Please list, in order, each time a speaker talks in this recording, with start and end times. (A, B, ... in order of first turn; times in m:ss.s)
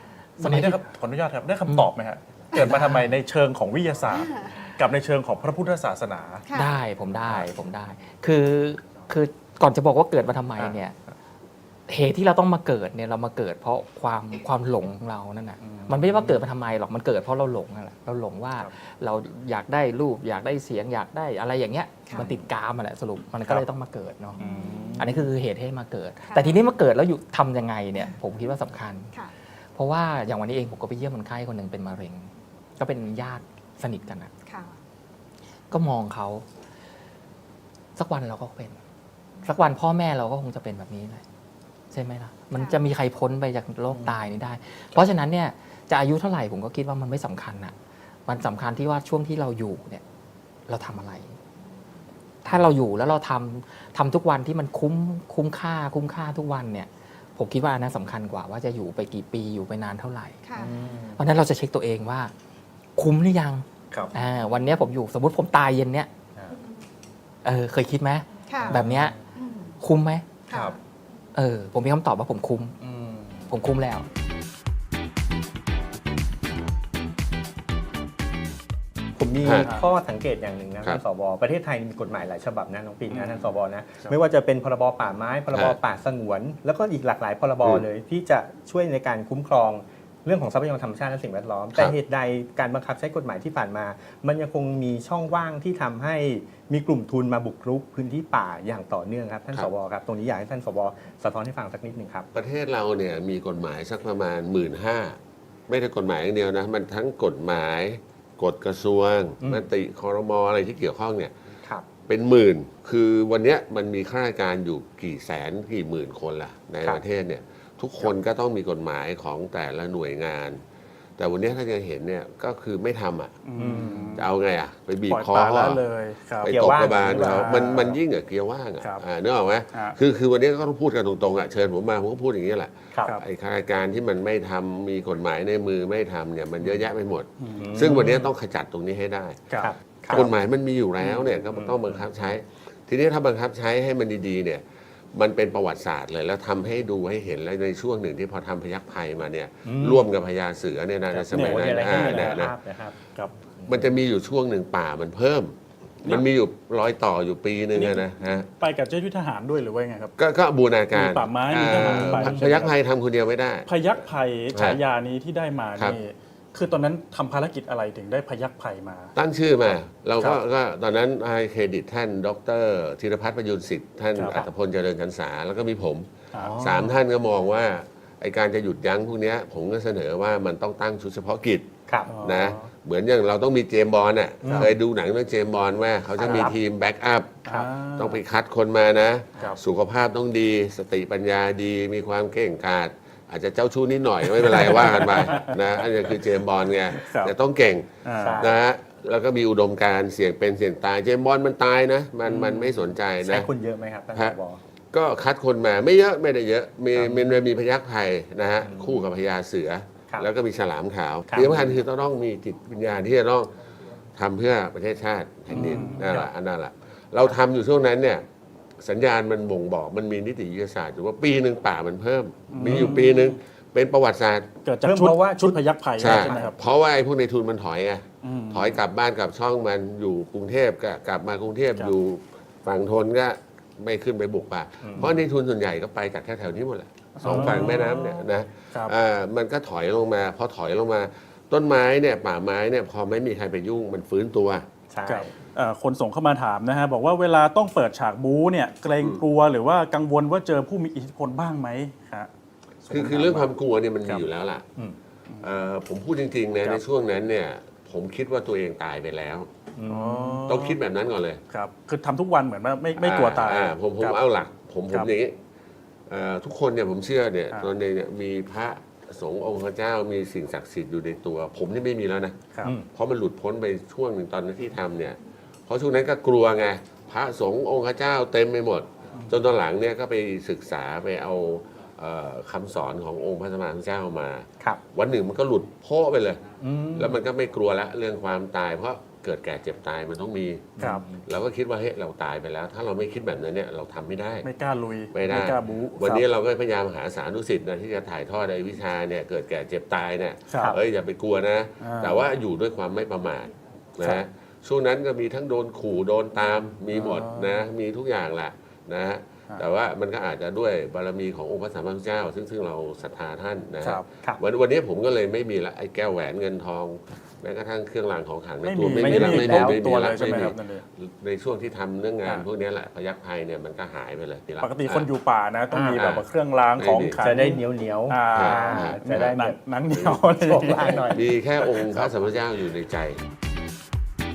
0:00.4-0:06.4 A
0:00.4-0:00.8 B
0:02.6-0:03.0 B
0:04.1-0:04.7 C
0:06.5-0:10.9 B
0:11.9-0:24.4 B
0:15.6-0:16.4 A
0:22.1-0:22.4 A
0:24.4-0:25.1 C
0:24.4-0:25.3 A
0:25.0-0:29.1 B
0:26.2-0:26.6 C
0:29.7-0:34.3 B
0:34.4-0:34.7 C
0:35.7-0:36.4 B
0:38.0-0:38.8 B
0:39.4-0:41.2 B
0:41.9-0:47.7 B
0:42.5-0:42.8 C
0:48.3-0:50.0 B
0:50.7-0:51.4 B
0:52.4-1:00.4 B
1:00.4-1:00.8 C
1:00.6-1:01.2 A
1:01.2-1:02.3 B
1:03.0-1:06.1 B
1:04.4-1:04.8 C
1:07.4-1:09.1 B
1:08.5-1:08.8 C
1:08.6-1:09.2 A
1:09.3-1:09.7 C
1:09.8-1:10.3 B
1:10.5-1:10.8 C
1:10.5-1:10.8 A
1:11.3-1:12.7 B
1:12.8-1:13.5 A
1:13.5-1:14.0 B
1:19.2-1:42.3 D
1:19.4-1:19.7 E
1:19.6-1:19.8 A
1:23.1-1:23.5 A
1:25.5-1:25.8 E
1:42.3-1:45.2 E
1:45.7-1:51.3 E
1:52.0-2:00.6 E
2:01.2-2:05.8 E
2:03.4-2:04.3 A
2:03.6-2:04.1 D
2:05.1-2:08.0 A
2:06.4-2:19.4 E
2:06.4-2:07.5 D
2:17.4-2:18.3 A
2:17.6-2:18.2 D
2:19.5-2:20.3 A
2:19.6-2:20.3 D
2:20.1-2:24.6 E
2:21.0-2:22.0 D
2:25.1-2:32.6 E
2:29.6-2:30.1 D
2:31.1-2:33.0 D
2:31.3-2:32.4 A
2:33.6-2:38.5 E
2:38.6-2:40.1 A
2:40.2-2:43.7 E
2:40.9-2:42.7 A
2:41.7-2:42.4 D
2:43.7-2:49.1 A
2:44.5-2:44.8 E
2:49.1-3:17.9 E
2:54.2-2:54.4 A
2:56.4-2:56.9 A
3:01.9-3:02.2 D
3:02.1-3:02.7 A
3:04.4-3:04.7 A
3:04.4-3:04.7 D
3:06.2-3:06.5 D
3:06.2-3:06.5 A
3:07.5-3:08.2 A
3:14.4-3:15.6 A
3:16.9-3:17.3 A
3:18.0-3:18.5 A
3:18.2-3:18.6 D
3:18.4-3:23.5 E
3:22.3-3:22.6 D
3:23.2-3:24.6 D
3:24.9-3:33.5 E
3:27.0-3:27.3 D
3:28.6-3:29.0 D
3:31.3-3:31.8 D
3:34.2-3:38.2 E
3:35.5-3:36.3 A
3:35.5-3:35.9 D
3:38.8-3:44.5 E
3:42.5-3:43.4 A
3:42.6-3:42.9 D
3:44.6-3:46.6 A
3:44.8-3:46.5 D
3:46.0-4:04.6 E
3:48.2-3:48.8 A
3:54.8-3:55.2 D
3:57.2-3:58.9 A
3:57.2-3:57.7 D
4:04.9-4:05.3 D
4:05.1-4:12.3 A
4:12.8-4:13.5 A
4:12.9-4:14.7 E
4:15.4-4:19.5 E
4:19.8-4:20.4 D
4:19.9-4:20.8 A
4:20.4-4:21.4 E
4:21.5-4:24.2 A
4:23.0-4:25.4 E
4:26.1-4:50.7 E
4:32.5-4:32.8 A
4:46.6-4:47.2 A
4:50.8-4:51.1 A
4:51.3-4:54.5 E
4:54.4-4:56.2 A
4:55.1-5:25.1 E
5:00.5-5:00.8 A
5:01.8-5:02.2 A
5:06.9-5:07.6 A
5:18.6-5:20.8 A
5:19.0-5:19.8 D
5:24.6-5:31.0 A
5:25.7-5:26.0 D
5:25.9-5:26.2 E
5:26.8-5:27.2 E
5:27.2-5:29.6 D
5:28.3-5:29.3 E
5:29.9-5:33.2 E
5:30.3-5:31.2 D